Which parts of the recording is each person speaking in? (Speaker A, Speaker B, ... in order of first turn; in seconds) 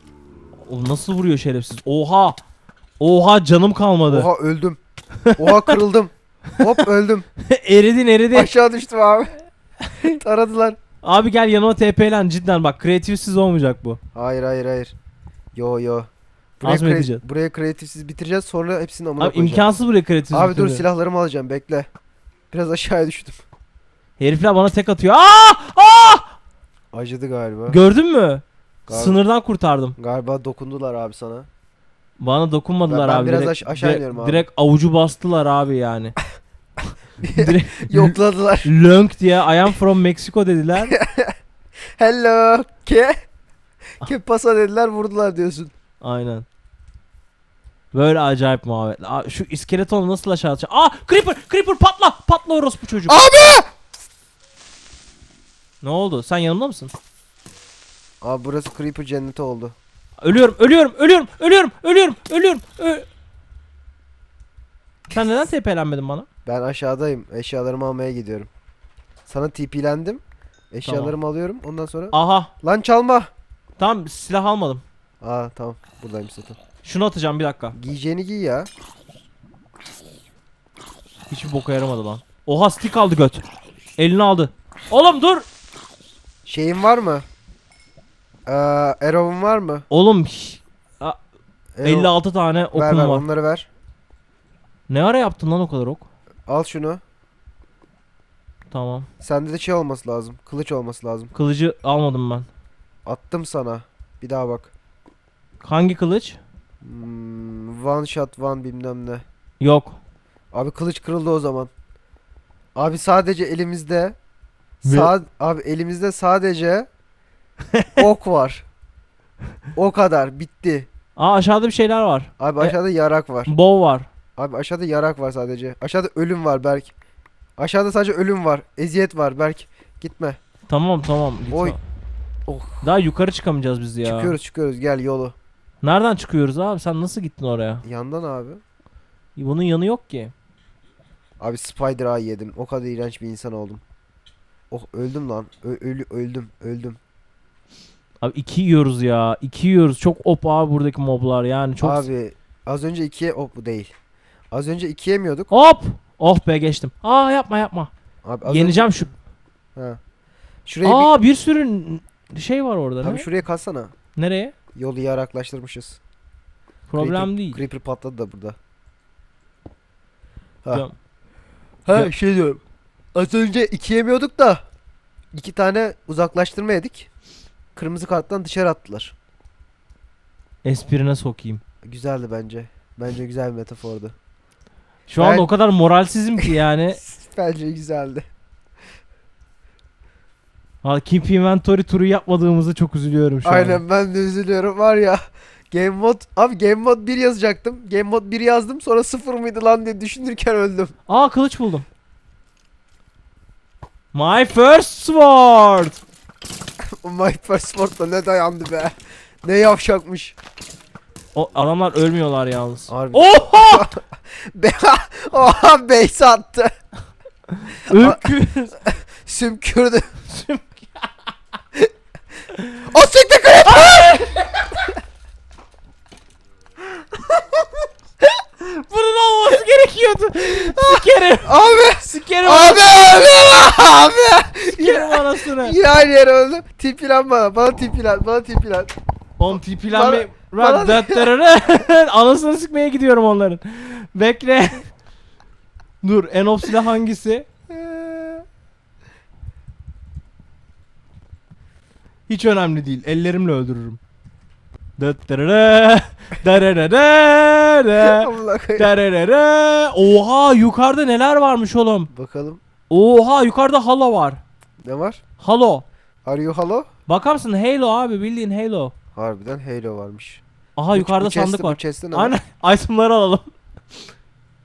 Speaker A: 0.7-2.4, 3.0-4.3, 5.2-5.7, 7.4-8.5, 11.0-14.0, 16.6-17.2, 19.2-20.8, 24.2-26.3, 27.7-29.9, 32.2-36.1, 37.4-40.9, 46.0-46.5, 47.9-53.2, 55.8-56.9, 60.2-63.1, 65.1-66.2, 70.8-71.2, 72.1-72.5, 73.8-74.8, 76.8-77.8, 81.3-83.4, 84.0-85.4, 89.9-91.2, 91.8-93.2, 94.9-96.0, 98.7-99.1, 101.3-102.5, 105.6-106.4, 109.6-110.0, 114.8-115.1, 121.2-122.8, 123.5-124.1, 130.7-131.8, 132.8-134.3, 135.8-137.8, 139.3-140.3, 148.2-152.1, 155.5-157.9, 158.5-159.1, 160.8-163.2, 164.2-164.5, 166.9-167.6, 180.6-181.6, 185.1-187.0, 190.8-193.8, 201.1-201.8, 204.1-206.0, 211.3-213.9, 217.6-218.7, 220.2-221.1, 222.5-222.8, 223.8-224.3, 228.6-232.9, 234.7-235.8, 239.4-244.9, 246.0-247.5, 252.3-254.0, 255.0-262.1, 262.9-264.4, 265.4-265.8, 267.1-268.9, 270.8-273.5
Speaker B: 4.1-4.8, 5.4-7.3, 8.3-9.3, 10.2-10.8, 14.1-14.9, 15.5-16.1, 16.6-19.7, 20.3-21.9, 22.5-23.4, 26.9-27.8, 28.9-29.2, 30.0-31.5, 32.8-34.4, 37.2-38.7, 40.9-41.3, 42.0-43.2, 44.0-45.7, 53.1-53.7, 58.2-59.7, 66.4-68.5, 69.3-73.3, 75.2-76.6, 77.8-78.7, 86.5-87.2, 88.5-89.8, 91.8-92.1, 92.7-93.7, 96.5-97.0, 99.2-101.3, 103.0-104.7, 106.8-109.2, 110.5-111.7, 112.7-114.2, 114.8-116.9, 118.0-118.6, 119.8-120.9, 122.4-123.5, 124.4-126.9, 127.6-130.4, 131.5-131.8, 132.5-132.9, 134.0-135.3, 137.8-138.6, 141.4-143.8, 144.7-147.0, 151.8-153.9, 154.5-155.5, 158.2-158.9, 160.7-161.1, 163.0-163.9, 164.7-166.0, 167.0-168.6, 171.8-172.6, 173.1-174.6, 175.3-177.1, 177.7-179.1, 181.8-184.1, 185.2-185.5, 186.4-188.2, 193.4-200.9, 206.9-210.3, 212.9-216.7, 217.9-220.2, 222.8-224.6, 227.2-227.7, 230.5-238.9, 239.5-241.3, 247.7-248.4, 258.0-258.9, 262.1-262.6, 264.8-265.2, 266.2-266.9, 269.1-272.4